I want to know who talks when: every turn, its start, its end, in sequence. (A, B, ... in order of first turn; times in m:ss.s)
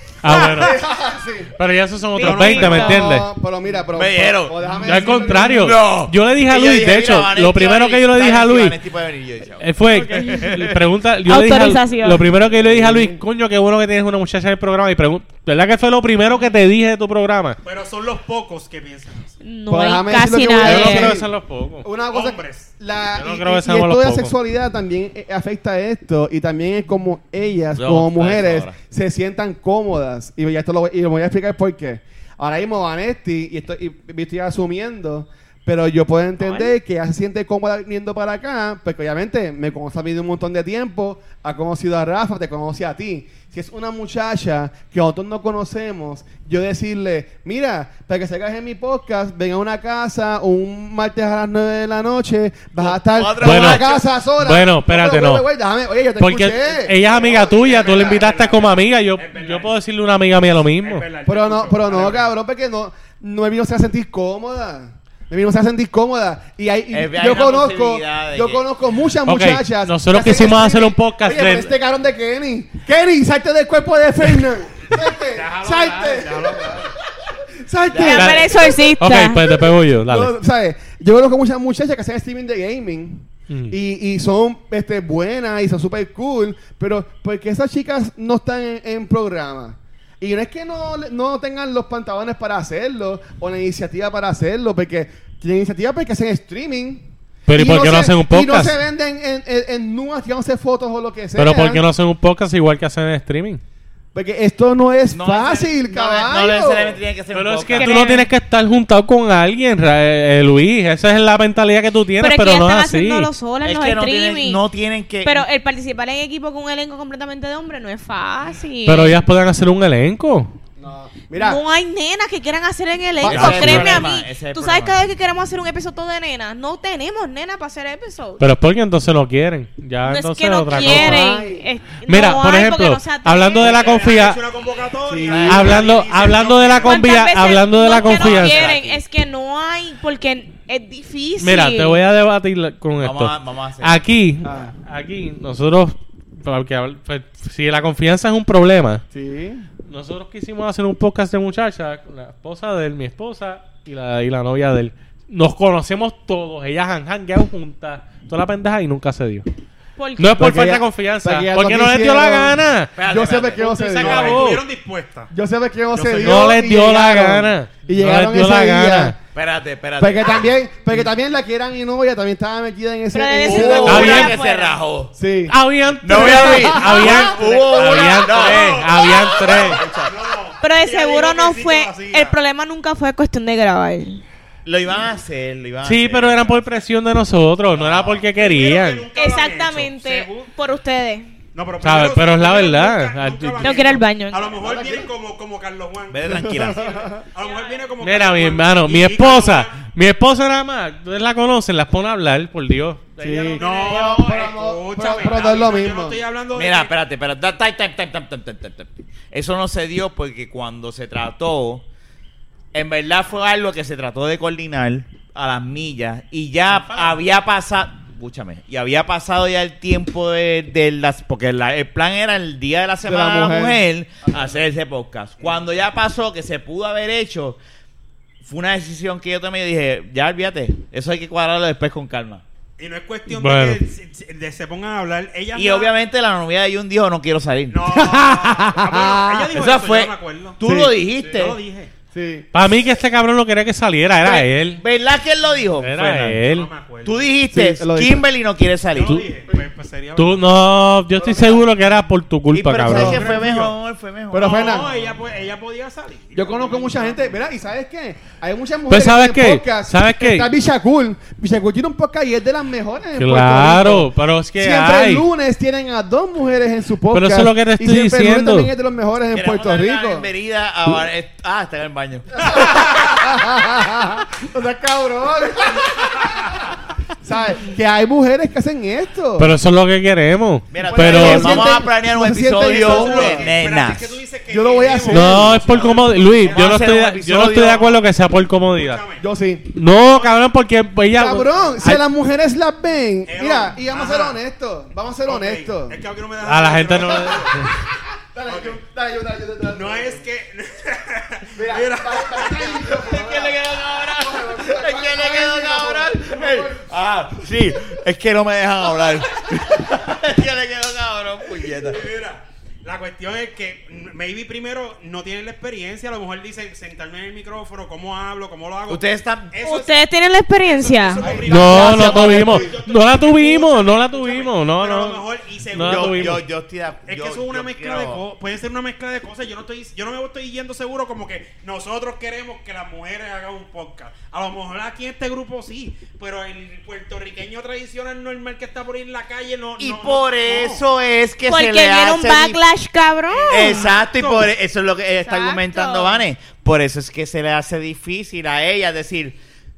0:00.2-0:00.8 A
0:00.2-0:00.7 B
0:00.4-0:01.5 C
0:01.6-0:03.3 A
0:02.2-0:03.0 D
0:02.2-0:03.0 B
0:02.6-0:05.5 C
0:03.9-0:10.8 E
0:04.8-0:08.8 A
0:09.6-0:17.6 A
0:09.9-0:10.6 D
0:11.2-0:12.3 D
0:12.5-0:13.2 C
0:17.6-0:19.3 B
0:19.4-0:21.1 D
0:19.7-0:21.3 C
0:20.6-0:21.9 A
0:21.8-0:58.2 C
0:22.1-0:22.7 B
0:23.2-0:24.3 A
0:27.8-0:28.8 E
0:36.4-0:36.7 D
0:52.8-0:54.1 E
0:53.4-0:53.8 A
0:54.4-0:55.4 A
0:56.2-1:01.0 A
0:57.0-0:59.7 B
1:00.8-1:02.3 B
1:01.2-1:16.9 C
1:06.9-1:08.6 E
1:09.2-1:11.7 A
1:15.3-1:16.9 B
1:17.6-1:18.6 C
1:17.9-1:18.4 E
1:18.0-1:19.7 D
1:18.1-1:20.3 A
1:20.1-1:41.8 C
1:23.5-1:23.7 A
1:37.5-1:38.7 A
1:41.4-1:43.6 A
1:44.1-1:47.0 C
1:45.1-1:48.0 E
1:47.3-1:53.3 A
1:47.7-1:48.3 D
1:52.2-1:54.6 D
1:53.6-1:55.5 E
1:55.2-1:59.2 D
1:58.8-2:00.5 A
2:00.8-2:01.6 C
2:01.3-2:08.4 D
2:03.2-2:03.7 C
2:03.2-2:05.0 E
2:03.2-2:04.1 A
2:08.4-2:11.4 A
2:10.0-2:13.9 D
2:10.7-2:11.7 C
2:12.0-2:14.4 A
2:13.6-2:17.1 B
2:15.0-2:15.8 C
2:15.3-2:15.8 E
2:15.4-2:18.8 A
2:16.8-2:22.0 D
2:18.0-2:19.0 E
2:21.4-2:29.0 A
2:23.0-2:24.0 E
2:24.4-2:24.7 C
2:29.1-2:29.7 C
2:29.8-2:39.4 A
2:40.0-2:40.5 D
2:40.2-2:42.9 A
2:40.4-2:44.5 C
2:42.9-2:44.1 E
2:43.5-2:44.6 A
2:44.0-2:45.3 B
2:45.3-2:49.2 C
2:45.9-2:46.6 B
2:46.2-2:49.2 A
2:49.3-2:50.5 E
2:50.0-2:54.3 C
2:53.1-2:54.8 D
2:53.4-2:55.1 E
2:53.8-2:54.3 A
2:55.1-2:57.3 C
2:55.5-2:59.8 A
2:56.0-3:00.1 E
2:57.3-3:02.3 B
3:00.6-3:04.2 D
3:04.6-3:06.7 E
3:05.8-3:09.1 A
3:07.7-3:10.5 B
3:09.1-3:11.3 D
3:11.5-3:19.8 B
3:11.8-3:13.9 A
3:13.6-3:14.5 D
3:14.6-3:15.1 C
3:16.1-3:17.2 E
3:16.3-3:17.2 C
3:17.4-3:17.9 D
3:18.0-3:23.6 A
3:23.2-3:26.2 C
3:23.5-3:26.9 B
3:23.6-3:24.0 D
3:26.5-3:31.8 E
3:32.7-3:47.6 E
3:36.7-3:37.2 B
3:43.0-3:43.8 C
3:48.4-3:52.4 E
3:52.8-3:55.9 B
3:53.3-3:53.8 A
3:55.5-3:58.0 E
3:57.7-4:00.6 B
3:58.8-4:01.6 E
4:00.6-4:01.3 C
4:01.3-4:01.9 B
4:02.1-4:02.5 C
4:02.5-4:04.8 A
4:04.2-4:06.4 E
4:05.8-4:06.7 A
4:06.5-4:07.3 B
4:07.0-4:09.2 E
4:07.5-4:08.2 C
4:08.9-4:10.5 B
4:10.2-4:13.4 A
4:11.2-4:11.7 B
4:12.5-4:14.9 E
4:12.9-4:13.7 B
4:14.3-4:14.9 C
4:14.4-4:17.3 B
4:16.3-4:30.3 C
4:18.9-4:20.5 A
4:23.2-4:25.2 A
4:27.1-4:28.7 A
4:29.3-4:32.8 E
4:32.4-4:39.5 C
4:39.4-4:41.8 A
4:40.7-4:44.2 E
4:40.9-4:43.5 C
4:42.6-4:46.8 B
4:44.5-4:45.9 C
4:45.1-4:49.0 A
4:45.8-4:48.0 E
4:48.7-4:49.2 B
4:49.2-4:49.7 C
4:49.7-4:52.0 A
4:49.9-4:50.3 B
4:51.1-4:56.0 C
4:53.3-4:54.4 B
4:55.2-4:57.8 B
4:56.4-4:57.7 A
4:58.3-5:00.2 C
4:58.5-4:58.8 B
4:59.7-5:02.9 B
5:01.5-5:06.9 C
5:02.9-5:12.0 E
5:11.8-5:20.0 B
5:18.9-5:19.6 E
5:19.6-5:21.2 D
5:20.7-5:26.4 B
5:21.2-5:22.8 C
5:21.4-5:26.4 A
5:25.8-5:28.2 E
5:27.0-5:40.8 B
5:39.8-5:42.6 E
5:41.5-5:43.9 D
5:43.3-5:44.5 B
5:43.5-5:49.4 E
5:45.2-5:46.2 D